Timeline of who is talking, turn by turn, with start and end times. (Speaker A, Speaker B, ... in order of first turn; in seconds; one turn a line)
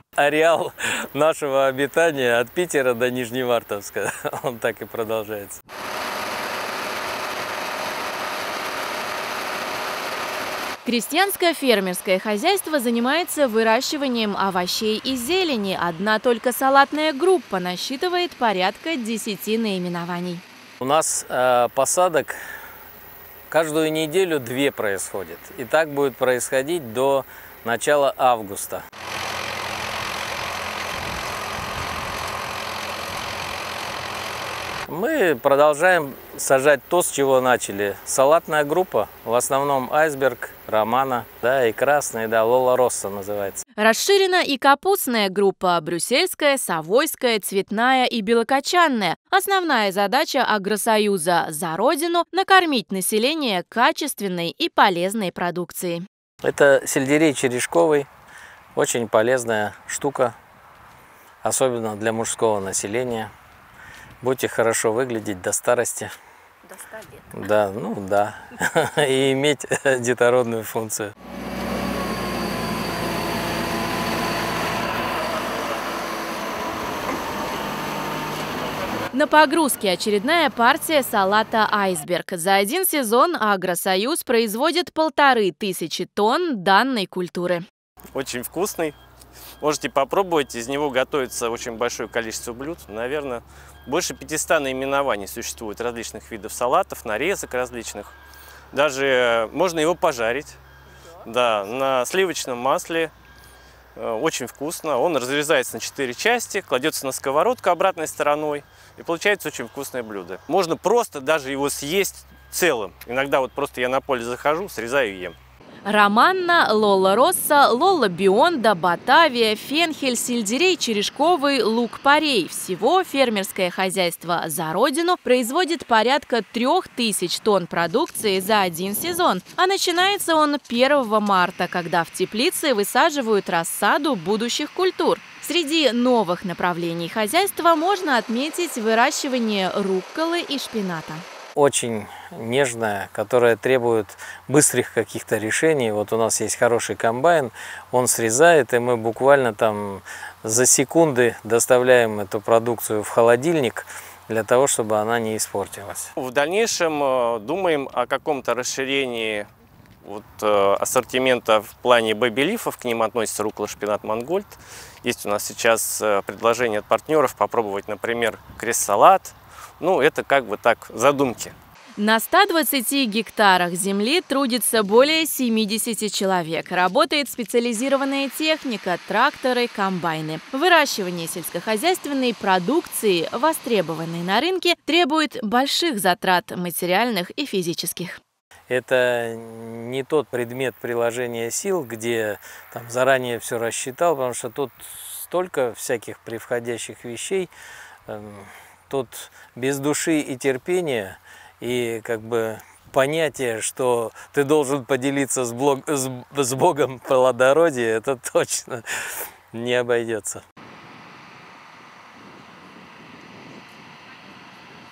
Speaker A: 0.2-5.6
Speaker B: 10.8-20.4
Speaker A: 20.8-22.4
Speaker A: 23.5-28.8
Speaker A: 34.9-43.6
Speaker B: 43.8-56.0
Speaker A: 56.4-58.1
Speaker A: 58.7-60.4
Speaker A: 61.4-63.3
Speaker A: 64.2-66.1
Speaker A: 67.3-71.1
Speaker B: 79.1-87.6
Speaker C: 88.1-89.0
Speaker C: 89.6-98.1
Speaker C: 98.7-100.6
Speaker C: 101.2-103.1
Speaker C: 103.9-115.3
Speaker B: 115.8-141.2
Speaker A: 141.6-156.1
Speaker C: 156.2-159.5
Speaker C: 160.0-171.5
Speaker B: 172.0-188.2
Speaker A: 188.7-197.5
Speaker A: 198.1-210.4